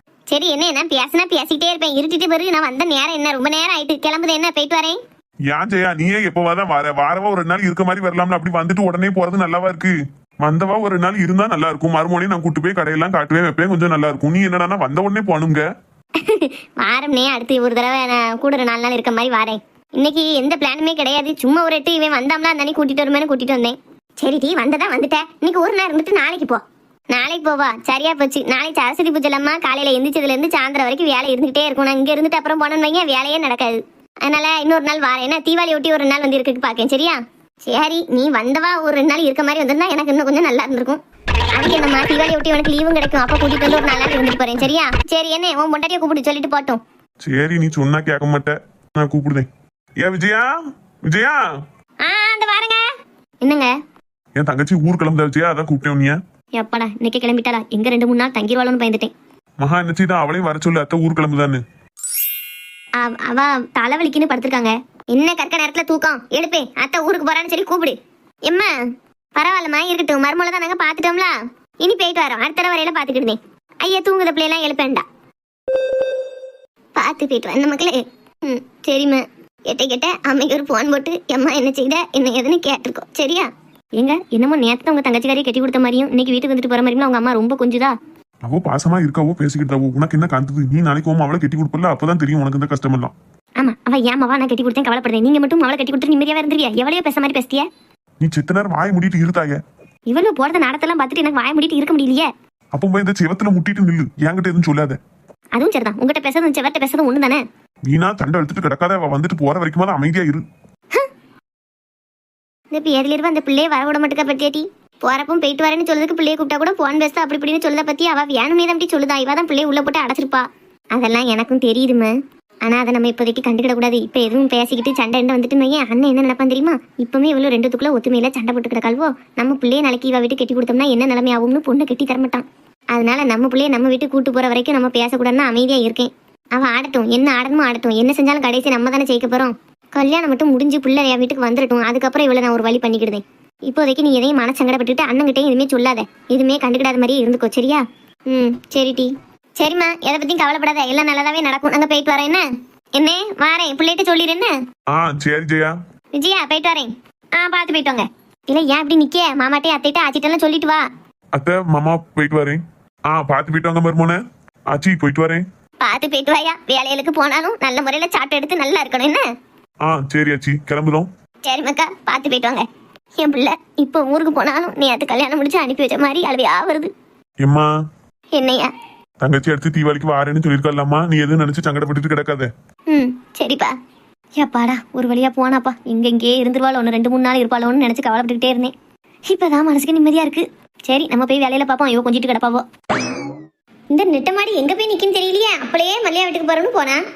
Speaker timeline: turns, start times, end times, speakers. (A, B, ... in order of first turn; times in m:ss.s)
0:00.3-0:05.0 A
0:05.5-0:15.6 B
0:16.2-0:41.0 A
0:41.5-0:46.8 A
0:47.2-0:49.5 B
0:50.0-0:51.4 B
0:52.0-0:52.8 A
0:53.4-0:53.7 A
0:54.4-0:56.2 B
0:56.6-0:59.1 A
0:59.6-1:01.6 B
1:03.0-1:08.7 A
1:09.4-1:15.0 A
1:17.0-1:27.9 A
1:28.4-1:33.1 B
1:33.6-1:37.6 A
1:38.2-1:39.6 B
1:40.1-1:42.3 A
1:42.7-1:45.0 B
1:45.6-1:47.4 A
1:47.8-1:50.4 B
1:52.7-2:02.1 A
2:02.6-2:32.4 A
2:33.0-2:34.5 A
2:34.9-2:35.7 B
2:36.1-2:40.8 A
2:41.3-2:42.6 B
2:43.1-2:44.2 B
2:44.7-2:45.4 B
2:45.8-2:49.2 A
2:49.8-2:51.1 B
2:51.4-2:52.6 A
2:53.2-2:56.9 A
2:57.4-2:57.7 B
2:58.3-2:58.7 A
2:59.2-3:02.5 B
3:02.9-3:03.7 A
3:04.4-3:08.7 A
3:09.3-3:12.6 A
3:13.9-3:17.0 A